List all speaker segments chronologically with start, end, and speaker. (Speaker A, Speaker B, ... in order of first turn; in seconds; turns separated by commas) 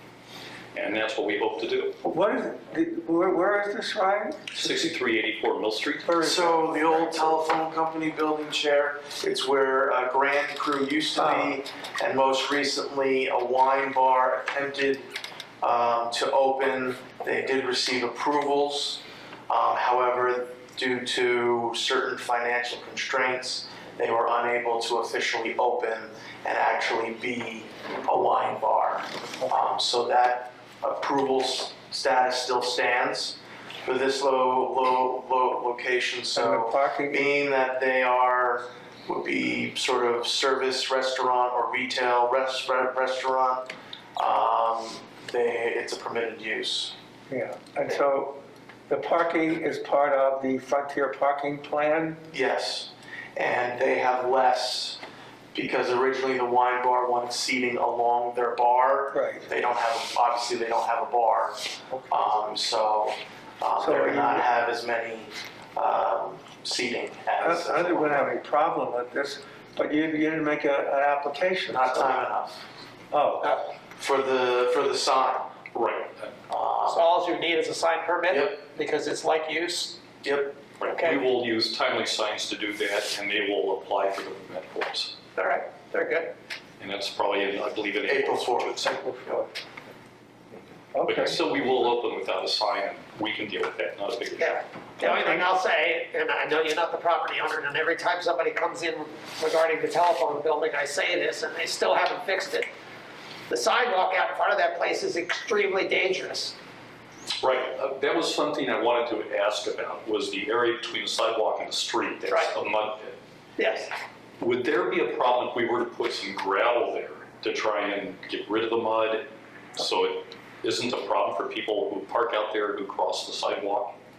Speaker A: 0.7-1.9, Speaker B: 2.0-4.9, Speaker A: 4.5-6.1, Speaker B: 6.0-7.3, Speaker C: 6.2-15.1, Speaker B: 11.1-11.6, Speaker C: 15.6-46.9, Speaker B: 29.4-29.8, Speaker B: 36.3-37.4, Speaker B: 47.3-52.2, Speaker C: 52.3-55.0, Speaker C: 55.5-68.3, Speaker B: 59.1-59.5, Speaker B: 63.8-64.5, Speaker B: 67.4-72.2, Speaker C: 71.7-72.6, Speaker B: 73.1-73.5, Speaker D: 73.4-73.7, Speaker C: 74.0-75.5, Speaker A: 75.7-76.3, Speaker C: 76.5-77.0, Speaker D: 76.9-80.0, Speaker C: 78.3-78.6, Speaker C: 80.2-80.7, Speaker A: 80.8-85.2, Speaker D: 80.9-81.2, Speaker D: 85.4-86.3, Speaker A: 86.8-88.9, Speaker C: 88.0-89.4, Speaker B: 88.9-89.5, Speaker B: 90.9-91.4, Speaker A: 91.0-94.7, Speaker D: 94.4-102.7, Speaker D: 103.5-106.5, Speaker A: 107.4-113.2, Speaker D: 113.6-113.9, Speaker A: 114.4-124.0